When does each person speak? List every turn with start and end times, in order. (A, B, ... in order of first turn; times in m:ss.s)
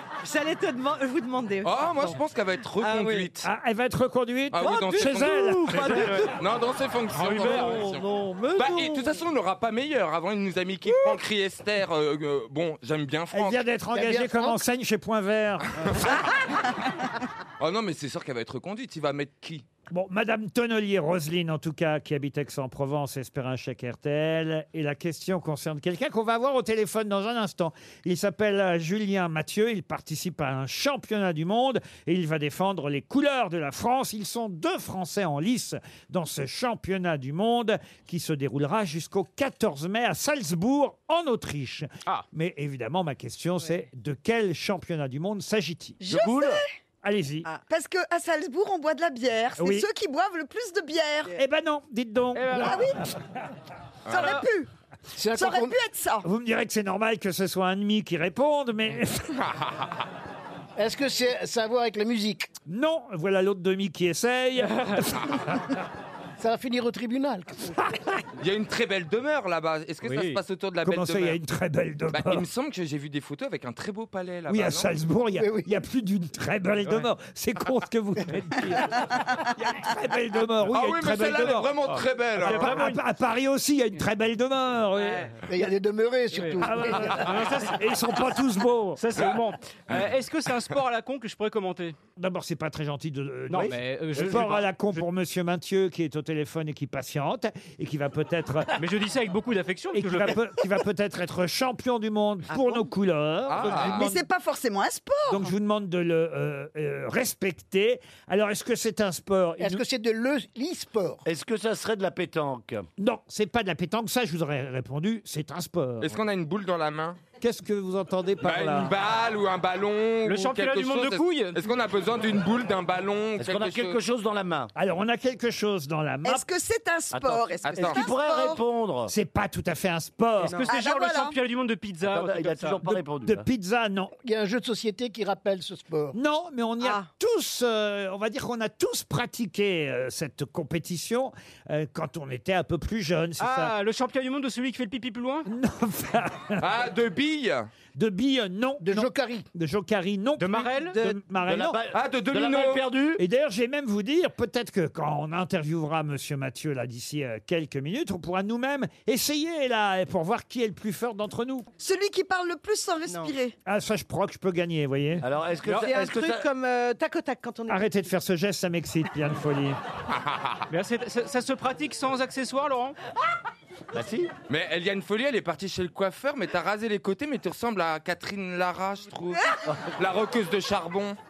0:00.2-0:02.2 A
0:01.6-0:03.5 B
0:02.8-0:03.3 A
0:03.4-0:06.2 C
0:04.5-0:08.1 B
0:04.7-0:05.7 A
0:05.7-0:06.3 D
0:07.1-0:07.8 E
0:07.3-0:07.7 F
0:07.4-0:08.6 D
0:08.6-0:13.6 B
0:13.3-0:16.2 C
0:13.9-0:14.6 F
0:15.8-0:16.4 B
0:17.6-0:19.6 B
0:19.9-0:46.0 C
0:46.0-0:46.6 G
0:46.2-0:46.5 D
0:47.0-0:47.5 C
0:47.7-0:51.4 G
0:49.6-0:49.9 C
0:51.4-0:52.9 C
0:52.3-0:52.9 E
0:52.6-0:53.0 G
0:54.1-0:54.4 B
0:54.1-0:54.7 G
0:55.1-0:55.8 F
0:55.3-0:56.3 G
0:56.2-0:59.5 C
1:00.8-1:02.5 F
1:02.7-1:05.7 C
1:04.6-1:05.2 E
1:06.4-1:07.8 F
1:08.4-1:11.4 B
1:10.0-1:10.4 E
1:10.8-1:12.5 C
1:12.1-1:14.9 B
1:14.5-1:21.7 C
1:15.4-1:15.8 F
1:20.7-1:22.8 B
1:21.9-1:23.0 E
1:22.4-1:25.4 C
1:25.4-1:27.2 F
1:26.3-1:28.2 E
1:26.6-1:29.0 C
1:29.0-1:32.0 E
1:32.2-1:38.8 C
1:33.5-1:35.0 E
1:38.8-1:40.4 E
1:39.9-1:44.2 C
1:43.5-1:44.1 B
1:43.7-1:45.5 G
1:45.3-1:49.8 C
1:49.6-1:51.2 F
1:51.3-1:52.9 D
1:53.0-1:56.2 C
1:56.0-1:57.2 B
1:57.4-1:59.0 C
1:58.4-2:04.0 B
2:00.2-2:01.6 E
2:03.4-2:04.7 D
2:04.8-2:06.5 C
2:06.2-2:08.6 G
2:07.1-2:09.1 D
2:07.4-2:08.1 F
2:07.6-2:08.0 B
2:09.1-2:10.7 C
2:10.4-2:12.8 E
2:10.7-2:11.4 G
2:12.1-2:13.5 D
2:12.8-2:14.1 C
2:14.2-2:16.2 F
2:16.1-2:23.8 C
2:23.4-2:25.5 E
2:25.5-2:26.7 C
2:26.6-2:27.7 B
2:28.0-2:31.8 C
2:28.8-2:29.5 F
2:30.4-2:31.0 E
2:31.5-2:33.2 D
2:31.9-2:32.8 B
2:33.2-2:41.7 C
2:41.8-2:43.6 G
2:43.1-2:43.4 A
2:43.7-2:45.2 C
2:45.2-2:46.5 D
2:45.7-2:45.9 E
2:45.8-2:47.9 A
2:47.7-2:49.8 C
2:50.1-2:50.6 B
2:50.7-2:53.0 E
2:54.0-2:54.3 D
2:54.5-3:01.2 B